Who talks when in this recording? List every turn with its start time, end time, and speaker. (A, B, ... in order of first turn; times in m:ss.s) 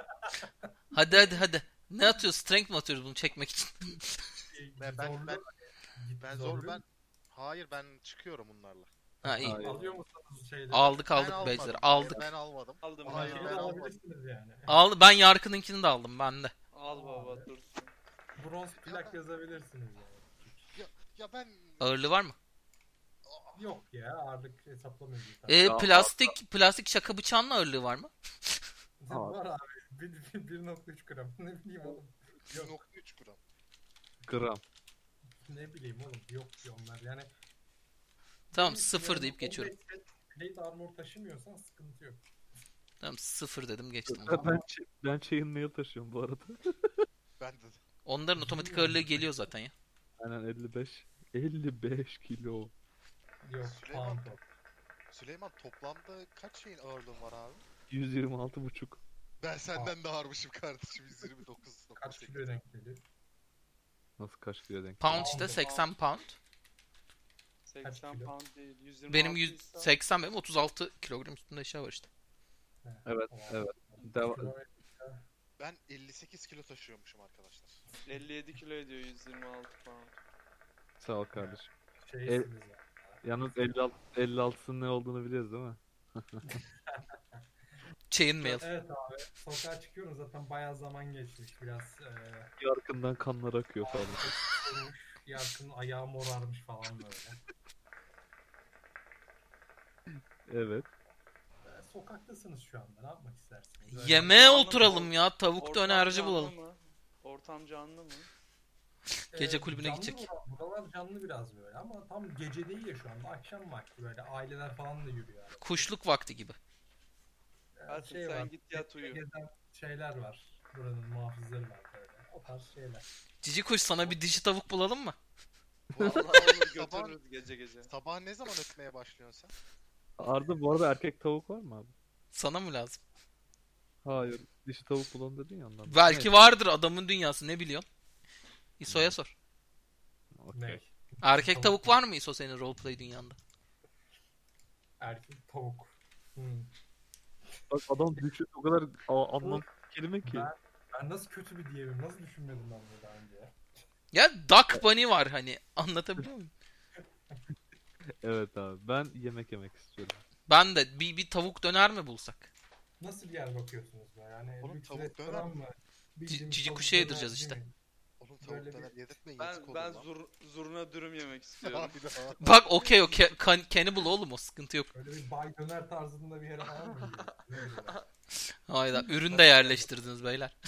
0:00.2-0:00.5 A
0:00.9-0:04.2 B
0:01.1-0:01.4 A
0:04.5-0:06.8 A
0:04.8-0:05.4 C
0:06.2-0:08.9 C
0:09.2-0:12.2 A
0:09.2-0:09.6 B
0:09.4-0:09.8 D
0:10.7-0:12.2 B
0:11.1-0:13.9 C
0:12.8-0:13.6 E
0:13.0-0:14.8 A
0:14.7-0:16.5 B
0:16.7-0:17.9 E
0:16.9-0:17.5 A
0:18.4-0:20.7 A
0:18.8-0:19.2 C
0:20.7-0:22.0 C
0:21.8-0:22.4 B
0:23.2-0:23.7 C
0:23.5-0:25.9 A
0:25.5-0:28.1 B
0:25.6-0:26.3 D
0:29.0-0:32.8 A
0:29.1-0:29.4 D
0:32.5-0:33.4 C
0:34.2-0:34.6 D
0:35.5-0:37.3 A
0:38.5-0:42.2 A
0:38.5-0:39.7 B
0:43.0-0:44.6 B
0:44.1-0:46.9 D
0:47.4-0:47.8 C
0:48.0-0:49.7 B
0:48.4-0:49.2 A
0:50.2-0:52.7 D
0:53.4-0:54.4 A
0:53.6-0:54.4 C
0:55.1-0:57.6 C
0:57.9-0:59.0 D
0:59.4-1:02.5 C
1:02.0-1:03.0 A
1:04.2-1:05.4 D
1:05.0-1:06.4 B
1:05.1-1:05.7 A
1:05.6-1:05.9 E
1:07.6-1:09.9 E
1:07.8-1:08.3 A
1:09.1-1:12.1 B
1:12.8-1:15.2 A
1:13.0-1:14.5 D
1:15.6-1:17.8 C
1:18.1-1:20.2 E
1:21.0-1:21.7 D
1:21.4-1:23.2 A
1:23.2-1:26.6 D
1:26.5-1:26.9 A
1:28.1-1:28.6 B
1:28.4-1:32.5 A
1:32.6-1:34.3 D
1:33.8-1:37.4 A
1:40.4-1:40.9 D
1:41.6-1:45.2 A
1:43.9-1:46.5 B
1:45.6-1:48.3 E
1:49.3-1:50.3 B
1:49.3-1:55.9 A
1:55.6-1:56.6 B
1:57.8-2:03.1 A
1:57.9-1:59.2 E
2:03.4-2:05.2 B
2:05.9-2:07.2 C
2:06.0-2:07.9 E
2:07.8-2:09.5 C
2:10.2-2:11.9 D
2:12.3-2:13.0 B
2:14.0-2:16.3 D
2:15.9-2:17.8 B
2:18.8-2:19.3 B
2:18.8-2:19.2 D
2:20.4-2:20.8 D
2:20.5-2:22.0 A
2:21.2-2:23.4 B
2:25.0-2:26.7 A
2:27.7-2:30.5 D
2:29.4-2:29.6 A
2:30.2-2:33.5 A
2:34.1-2:36.5 B
2:38.2-2:40.2 D
2:40.5-2:42.5 B
2:43.0-2:47.7 A
2:44.6-2:45.5 C
2:46.3-2:47.6 B
2:48.2-2:50.1 C
2:48.4-2:48.9 A
2:49.4-2:52.0 E
2:51.6-2:52.4 C
2:52.4-2:54.9 B
2:52.8-2:53.3 E
2:54.9-2:58.0 A
2:56.6-2:58.0 E
2:58.3-3:00.5 B
2:59.1-3:00.1 A